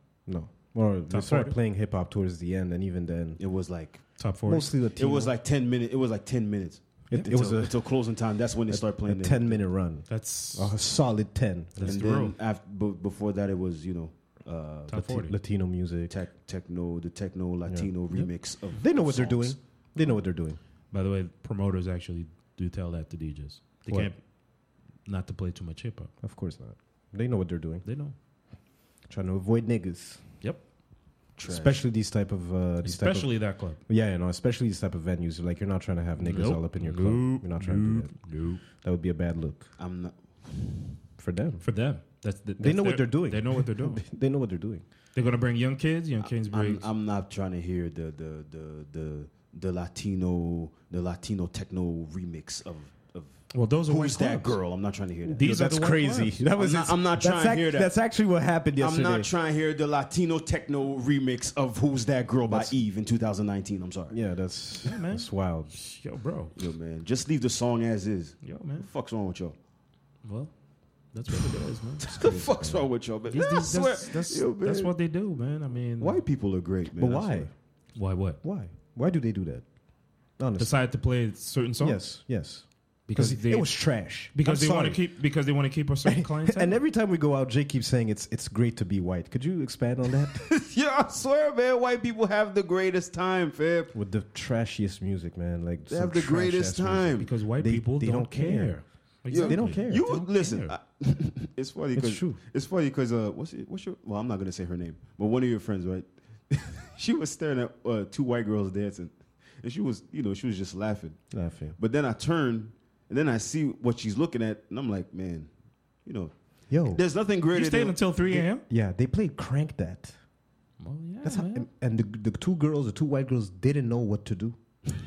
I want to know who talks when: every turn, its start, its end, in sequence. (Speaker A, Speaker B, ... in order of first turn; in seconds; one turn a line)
Speaker A: 0.3-3.4
Speaker B: 1.1-1.6
Speaker C: 3.4-4.1
Speaker B: 4.2-4.7
Speaker A: 4.5-5.3
Speaker C: 5.0-9.6
Speaker A: 7.1-8.1
Speaker A: 8.7-12.0
Speaker B: 10.1-10.8
Speaker B: 11.8-12.3
Speaker C: 11.8-15.0
Speaker B: 14.9-15.3
Speaker A: 14.9-16.1
Speaker C: 16.1-19.6
Speaker A: 18.6-20.6
Speaker B: 20.9-24.2
Speaker B: 25.0-26.1
Speaker A: 26.2-27.9
Speaker B: 27.9-28.1
Speaker A: 29.1-30.2
Speaker C: 31.3-31.8
Speaker A: 31.4-39.7
Speaker B: 32.8-33.8
Speaker B: 36.2-38.6
Speaker C: 39.8-41.0
Speaker A: 41.2-41.6
Speaker B: 41.6-44.0
Speaker A: 42.6-44.8
Speaker B: 45.1-46.9
Speaker C: 46.2-55.5
Speaker B: 53.5-54.6
Speaker A: 55.2-59.3
Speaker B: 55.4-56.4
Speaker C: 56.5-57.9
Speaker C: 58.8-64.2
Speaker A: 62.5-62.7
Speaker A: 64.1-65.7
Speaker B: 64.8-66.5
Speaker C: 66.5-69.5
Speaker B: 68.4-68.9
Speaker B: 70.2-70.5
Speaker B: 71.1-72.4
Speaker C: 72.0-74.9
Speaker A: 72.2-72.9
Speaker B: 73.3-76.2
Speaker C: 76.0-77.5
Speaker A: 77.0-77.5
Speaker B: 77.9-78.4
Speaker A: 78.4-79.6
Speaker A: 80.4-80.7
Speaker B: 80.6-82.0
Speaker A: 81.8-85.0
Speaker B: 83.1-86.8
Speaker A: 86.0-90.5
Speaker C: 90.5-93.9
Speaker A: 93.9-98.8
Speaker C: 95.9-97.3
Speaker B: 97.2-100.7
Speaker C: 99.3-111.2
Speaker A: 99.3-100.1
Speaker A: 101.9-102.4
Speaker A: 111.3-111.8
Speaker C: 111.8-115.5
Speaker C: 116.0-118.5
Speaker A: 116.7-117.0
Speaker B: 117.5-118.6
Speaker A: 118.7-120.2
Speaker B: 120.8-121.7
Speaker A: 121.2-124.6